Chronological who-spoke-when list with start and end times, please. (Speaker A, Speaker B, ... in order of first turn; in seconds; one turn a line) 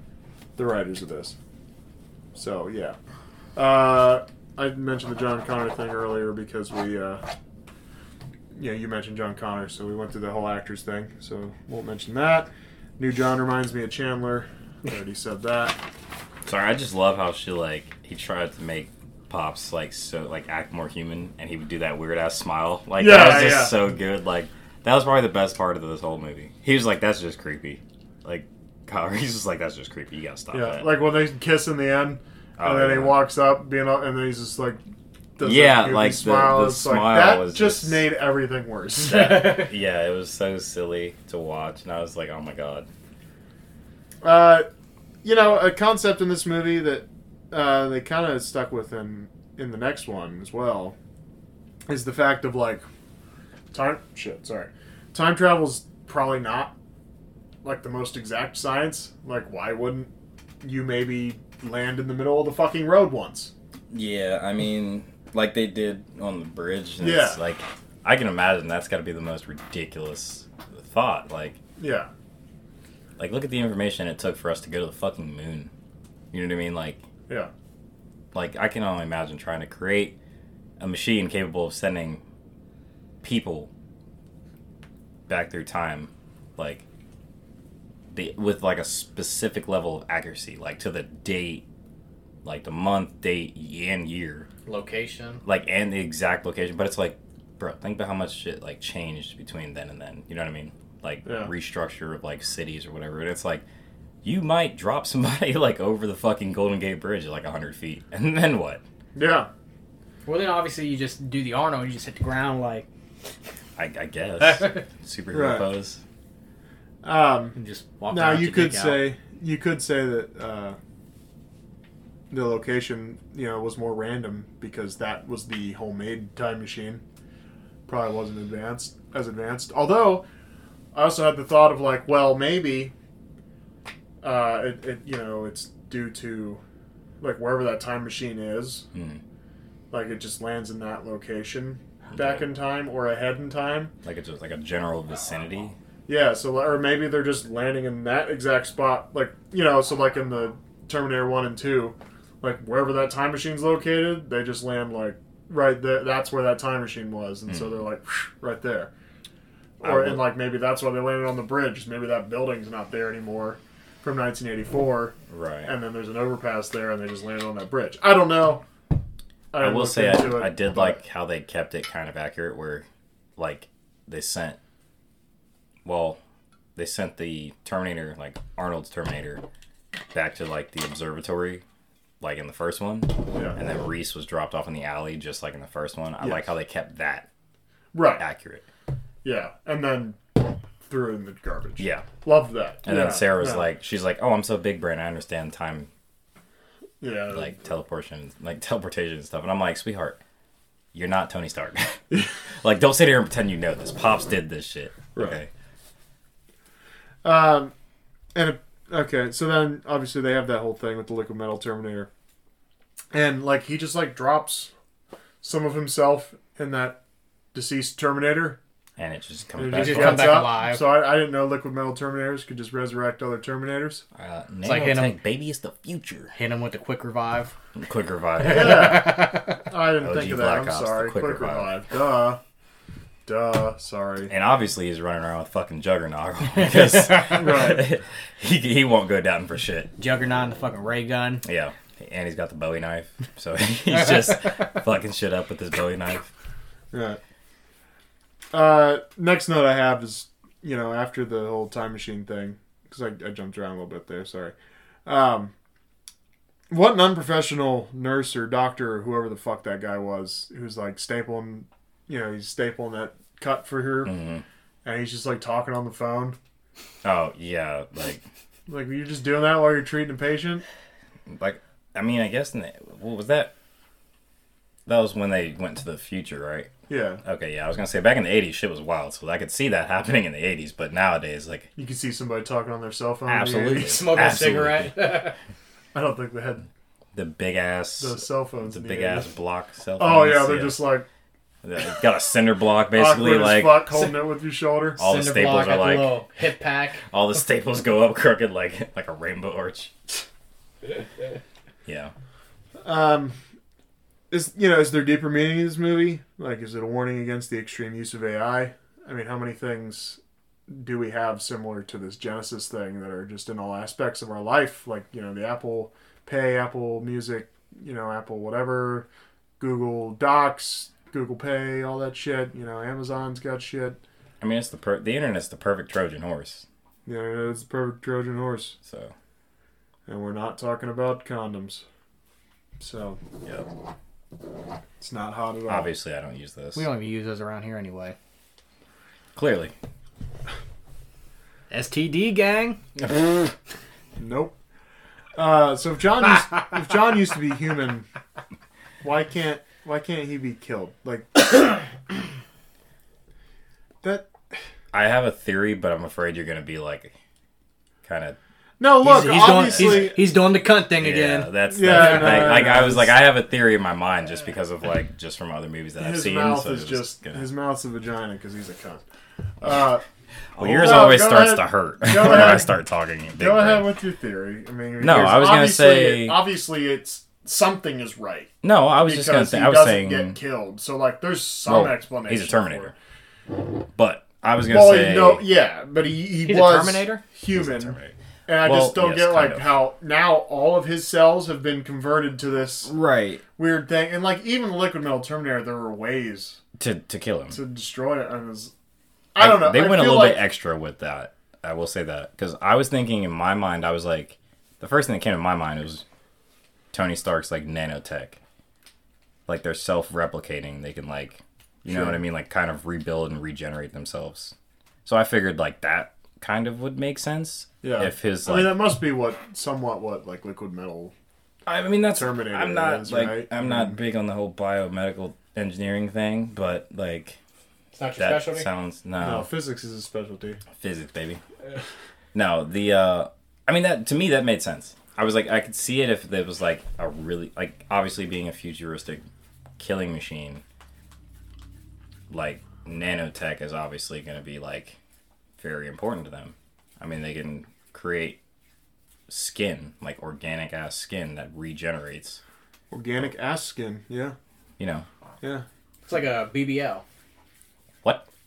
Speaker A: 0.6-1.4
Speaker A: 2.4-3.0
Speaker A: 3.6-7.2
Speaker A: 8.5-15.8
Speaker B: 16.5-30.9
Speaker A: 23.0-23.8
Speaker A: 30.5-34.8
Speaker B: 32.6-33.2
Speaker A: 35.4-39.7
Speaker B: 35.4-38.0
Speaker B: 39.1-42.9
Speaker A: 44.2-44.7
Speaker A: 45.2-51.0
Speaker A: 51.9-52.9
Speaker A: 53.7-56.7
Speaker A: 57.6-60.1
Speaker A: 60.6-63.5
Speaker B: 63.9-71.6
Speaker A: 67.0-67.4
Speaker A: 71.8-72.1
Speaker B: 73.2-75.7
Speaker B: 76.3-77.0
Speaker B: 78.3-80.2
Speaker B: 80.8-82.2
Speaker B: 83.2-83.7
Speaker B: 85.3-86.8
Speaker B: 88.1-91.7
Speaker B: 92.4-94.5
Speaker C: 94.7-95.4
Speaker B: 95.5-103.6
Speaker A: 101.2-101.5
Speaker B: 104.2-108.8
Speaker A: 109.2-109.5
Speaker C: 110.3-112.9
Speaker B: 113.8-116.0
Speaker C: 114.4-114.8
Speaker A: 115.3-115.7
Speaker A: 117.0-117.6
Speaker C: 117.5-119.1
Speaker A: 118.1-120.8
Speaker A: 122.3-127.0
Speaker A: 127.9-130.2
Speaker A: 130.9-132.9
Speaker A: 134.2-136.6
Speaker A: 137.2-138.8
Speaker B: 138.9-139.2
Speaker A: 139.9-143.9
Speaker B: 142.1-142.5
Speaker B: 144.0-145.8
Speaker A: 146.1-158.9
Speaker B: 157.5-157.8
Speaker B: 159.8-160.3
Speaker A: 159.8-165.2
Speaker B: 165.3-165.7
Speaker A: 165.7-168.7
Speaker A: 169.5-171.0
Speaker B: 169.6-172.9
Speaker B: 173.4-174.6
Speaker B: 175.8-176.2
Speaker B: 176.8-179.4
Speaker B: 180.1-181.6
Speaker B: 182.2-187.3
Speaker A: 183.3-183.6
Speaker A: 186.2-186.5
Speaker A: 187.9-188.2
Speaker B: 188.2-188.7
Speaker A: 189.2-193.7
Speaker B: 191.8-192.1
Speaker B: 192.8-195.9
Speaker A: 197.0-197.5
Speaker B: 197.3-200.2
Speaker B: 200.9-205.5
Speaker A: 207.2-207.7
Speaker A: 208.3-212.1
Speaker A: 213.1-214.7
Speaker A: 215.4-217.0
Speaker A: 217.5-218.6
Speaker B: 219.0-220.5
Speaker A: 219.6-224.0
Speaker C: 219.8-220.8
Speaker B: 224.2-226.3
Speaker C: 224.7-225.2
Speaker C: 226.3-227.5
Speaker B: 227.8-229.2
Speaker C: 228.4-229.6
Speaker A: 228.5-232.4
Speaker B: 230.0-231.8
Speaker A: 233.3-234.3
Speaker B: 234.3-239.9
Speaker C: 236.6-237.5
Speaker A: 237.3-237.8
Speaker C: 240.0-241.4
Speaker B: 241.4-246.3
Speaker A: 246.9-247.2
Speaker A: 248.5-254.6
Speaker A: 255.1-255.5
Speaker A: 256.7-264.1
Speaker B: 264.1-264.4
Speaker A: 264.9-266.4
Speaker B: 267.0-268.2
Speaker A: 268.7-270.6
Speaker B: 271.3-273.5
Speaker B: 274.9-276.7
Speaker A: 276.9-277.2
Speaker B: 277.2-281.7
Speaker A: 281.8-283.9
Speaker B: 283.3-285.2
Speaker C: 283.8-285.4
Speaker A: 285.9-286.7
Speaker B: 287.1-290.9
Speaker A: 288.0-289.3
Speaker A: 290.0-291.1
Speaker B: 291.6-293.9
Speaker A: 292.9-295.0
Speaker B: 295.0-296.2
Speaker C: 295.0-297.0
Speaker B: 297.1-299.9
Speaker B: 301.9-302.1
Speaker A: 302.8-303.4
Speaker A: 304.3-319.1
Speaker A: 319.6-324.0
Speaker B: 324.4-326.7
Speaker A: 327.1-328.8
Speaker B: 328.9-329.1
Speaker A: 330.1-331.8
Speaker A: 332.8-333.2
Speaker A: 335.0-335.9
Speaker B: 335.7-336.9
Speaker C: 336.8-338.1
Speaker B: 339.4-339.7
Speaker C: 341.7-342.8
Speaker A: 344.2-344.6
Speaker A: 345.4-348.1
Speaker A: 349.0-351.9
Speaker A: 354.0-354.6
Speaker B: 354.9-357.1
Speaker B: 358.0-358.4
Speaker A: 358.8-360.2
Speaker C: 359.0-362.4
Speaker B: 359.7-360.1
Speaker B: 361.0-367.4
Speaker A: 361.6-363.1
Speaker A: 366.0-369.0
Speaker A: 369.6-370.0
Speaker B: 370.5-374.0
Speaker A: 370.6-372.7
Speaker A: 373.4-382.9
Speaker B: 375.0-376.4
Speaker B: 378.6-380.4
Speaker B: 381.7-382.9
Speaker B: 383.9-385.5
Speaker A: 384.7-388.0
Speaker C: 386.5-387.2
Speaker B: 387.5-389.8
Speaker A: 388.5-392.9
Speaker B: 392.9-393.4
Speaker A: 393.6-396.6
Speaker B: 396.8-397.6
Speaker A: 397.5-398.7
Speaker A: 399.4-400.4
Speaker B: 399.4-406.0
Speaker B: 406.9-408.4
Speaker B: 409.5-418.9
Speaker A: 411.9-412.2
Speaker A: 417.8-421.1
Speaker B: 421.7-427.4
Speaker A: 422.1-424.0
Speaker C: 427.9-428.7
Speaker B: 428.2-429.5
Speaker A: 429.2-430.6
Speaker B: 430.8-431.4
Speaker B: 432.3-439.2
Speaker B: 439.8-440.6
Speaker B: 442.3-445.0
Speaker B: 445.6-448.4
Speaker B: 449.3-452.4
Speaker A: 452.9-454.4
Speaker B: 454.8-455.1
Speaker C: 456.1-457.0